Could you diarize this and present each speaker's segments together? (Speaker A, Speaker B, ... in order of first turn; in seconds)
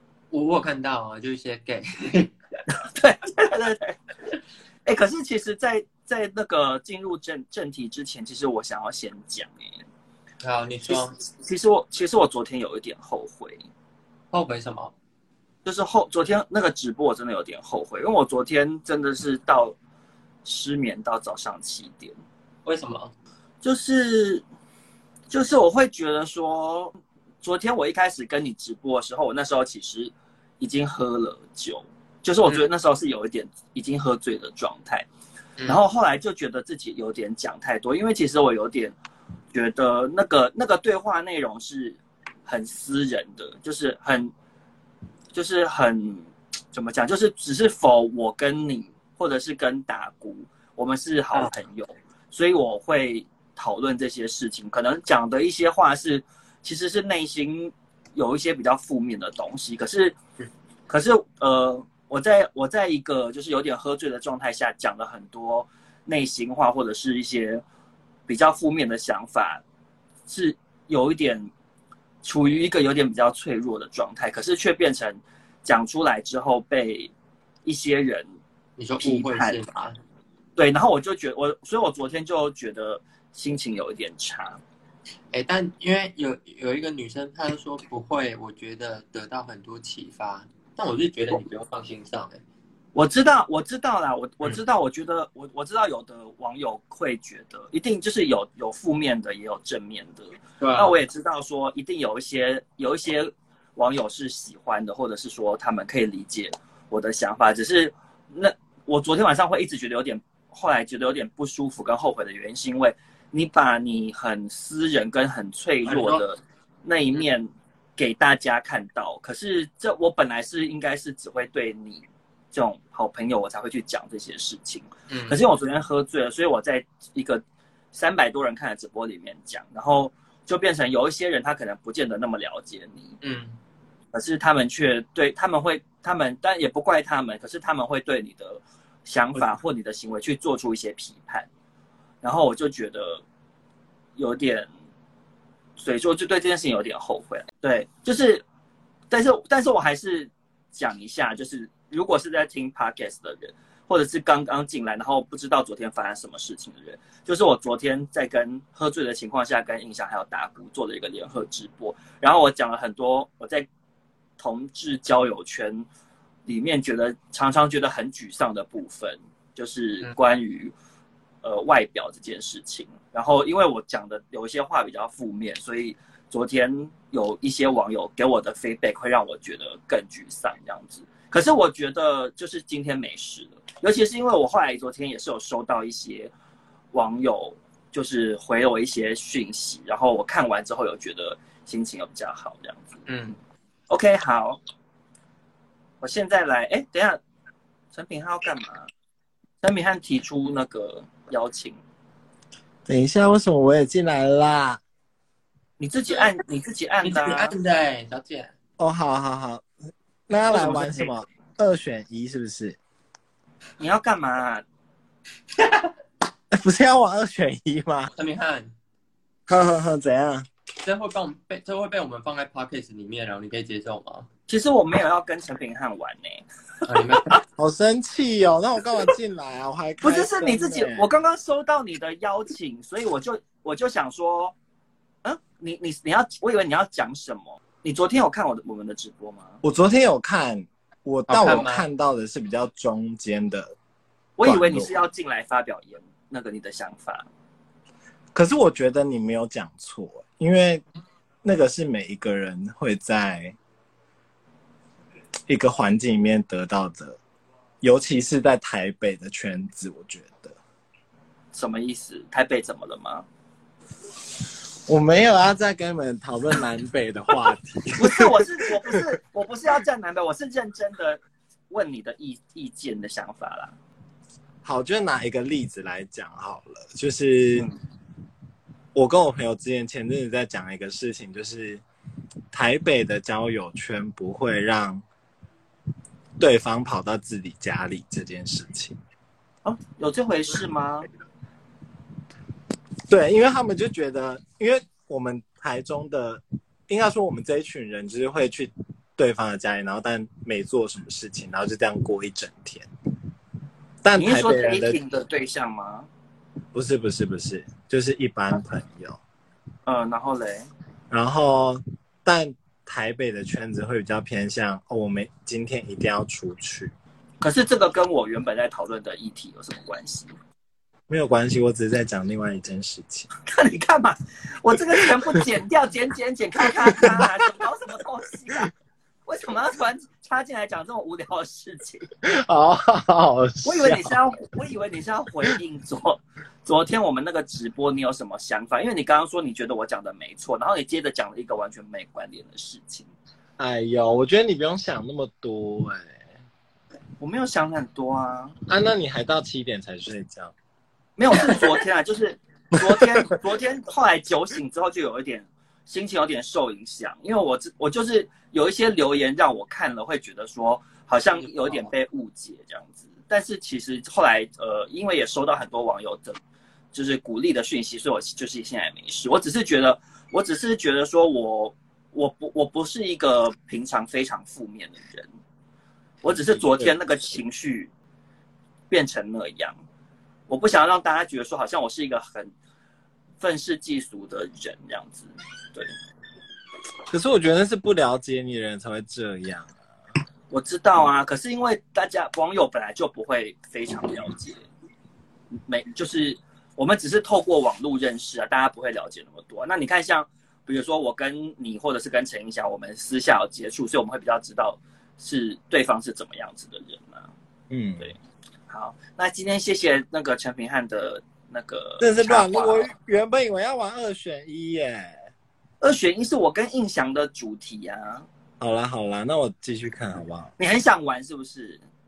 Speaker A: 0.3-2.3, 10.4-11.2, 14.3-14.9, 22.6-23.1, 78.8-80.0, 85.3-92.4, 100.6-101.0, 115.9-116.2, 125.1-125.4, 133.2-133.6, 193.1-193.4, 207.0-208.5, 218.1-218.7, 220.8-224.3, 226.9-227.4, 241.3-241.8, 361.4-361.9
Speaker B: 2.8-4.0, 4.9-9.8, 10.9-13.7, 15.7-19.8, 20.4-22.1, 23.6-24.4, 25.3-35.1, 35.7-39.0, 39.5-44.3, 45.3-60.2, 60.9-67.6, 68.3-69.6, 70.3-71.5, 72.2-77.1, 77.7-78.3, 79.0-79.6, 80.6-84.6, 93.0-133.2, 134.1-141.5, 142.2-143.2, 144.2-144.7, 145.8-148.4, 149.1-163.7, 164.4-165.9, 166.5-170.7, 171.4-186.3, 186.9-193.0, 193.9-194.6, 196.0-197.2, 197.9-198.9, 199.6-201.8, 205.8-207.5, 210.5-211.1, 213.8-214.6, 224.5-226.4, 230.0-234.5, 235.2-239.6, 244.4-247.3, 261.5-263.2, 268.0-273.7, 289.6-291.1, 304.2-306.1, 309.9-310.7, 317.4-320.3, 323.5-328.7, 329.3-332.1, 333.6-343.1, 347.2-348.6, 351.2-366.4, 366.9-375.3, 376.2-377.9, 378.9-379.8, 380.5-382.5, 383.4-385.9, 390.5-394.6, 395.7-407.3, 408.7-412.9, 415.8-418.3, 420.6-421.8
Speaker C: 202.9-204.8, 208.8-209.7, 210.3-212.8, 216.5-218.1, 219.5-220.5, 227.6-231.1, 239.6-243.7, 244.4-245.0, 248.3-250.8, 251.4-253.6, 255.5-257.2, 257.8-260.6, 264.9-268.4, 274.6-277.7, 278.9-281.8, 282.5-285.0, 286.4-289.0, 293.1-302.9, 304.0-305.0, 306.7-309.2, 311.1-316.9, 321.1-323.3, 326.9-327.3, 332.2-334.1, 343.6-346.2, 348.7-350.5, 351.3-351.7, 352.8-353.3, 376.2-376.9, 387.1-389.7, 407.7-408.1, 412.0-415.2, 418.6-420.5